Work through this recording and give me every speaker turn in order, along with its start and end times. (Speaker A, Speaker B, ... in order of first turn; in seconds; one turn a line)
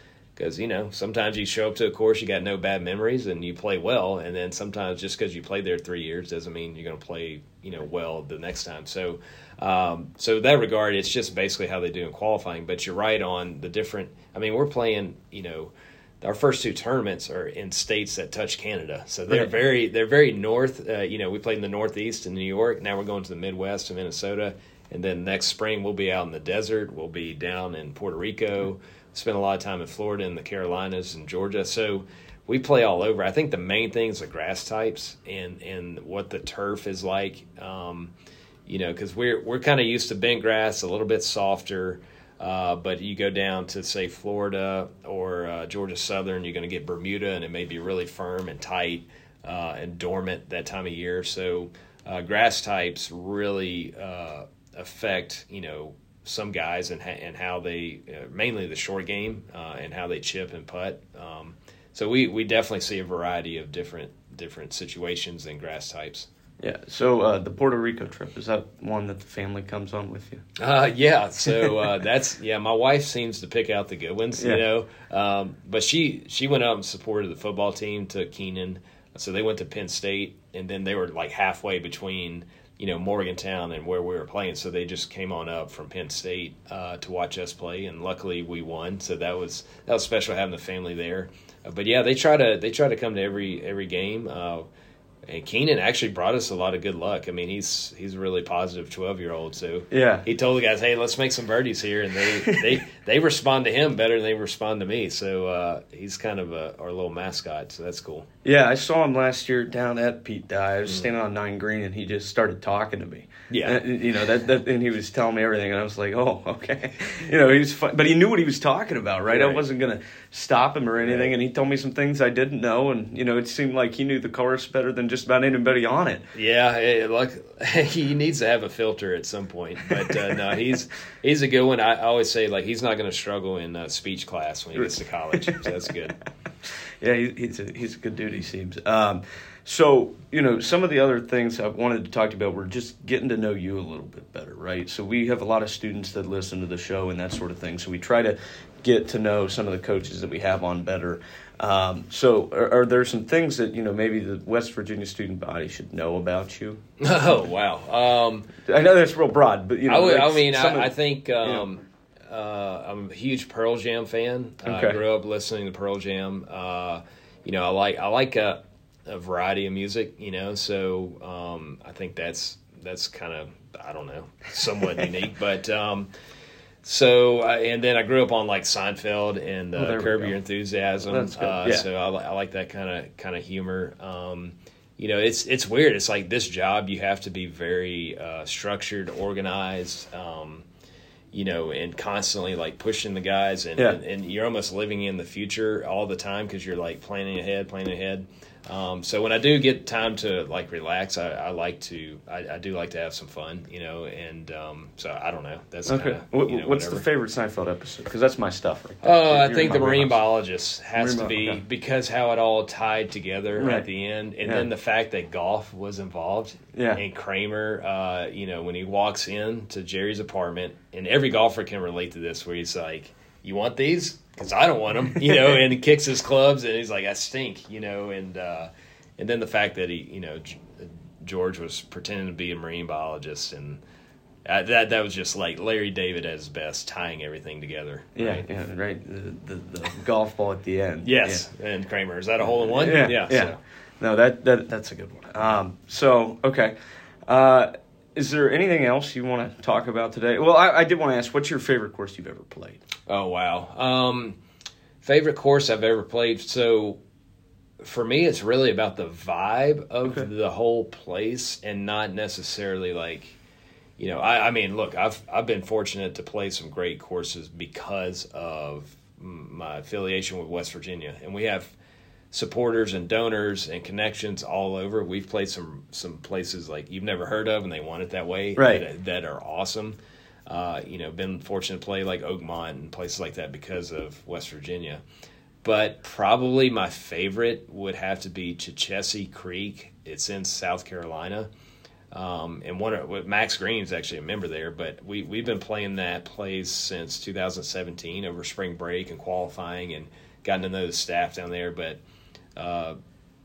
Speaker A: 0.4-38.1
Speaker A: 38.7-66.3
Speaker B: 66.6-70.5
Speaker A: 70.6-94.7
Speaker B: 71.5-71.8
Speaker A: 95.3-108.3
Speaker B: 99.9-100.3
Speaker B: 102.2-102.8
Speaker B: 108.4-126.3
Speaker A: 113.5-113.8
Speaker A: 119.3-119.6
Speaker A: 121.0-121.3
Speaker A: 126.3-136.2
Speaker B: 135.4-135.7
Speaker B: 136.6-156.8
Speaker A: 157.0-158.5
Speaker B: 158.6-161.7
Speaker A: 159.9-176.1
Speaker B: 164.7-165.0
Speaker A: 176.8-190.7
Speaker B: 179.8-180.4
Speaker B: 181.0-181.9
Speaker A: 191.3-207.0
Speaker B: 205.9-210.2
Speaker A: 209.0-233.8
Speaker B: 211.0-211.6
Speaker B: 213.6-213.9
Speaker B: 216.7-217.0
Speaker B: 225.3-225.6
Speaker A: 234.4-238.5
Speaker B: 238.2-241.5
Speaker A: 241.0-243.6
Speaker B: 242.6-246.8
Speaker B: 247.3-252.8
Speaker A: 253.1-254.4
Speaker A: 255.0-257.0
Speaker A: 257.8-263.4
Speaker B: 260.0-260.3
Speaker A: 264.0-271.7
Speaker A: 272.3-285.0
Speaker B: 278.6-278.8
Speaker A: 285.6-291.5
Speaker A: 292.1-302.0
Speaker A: 302.6-303.0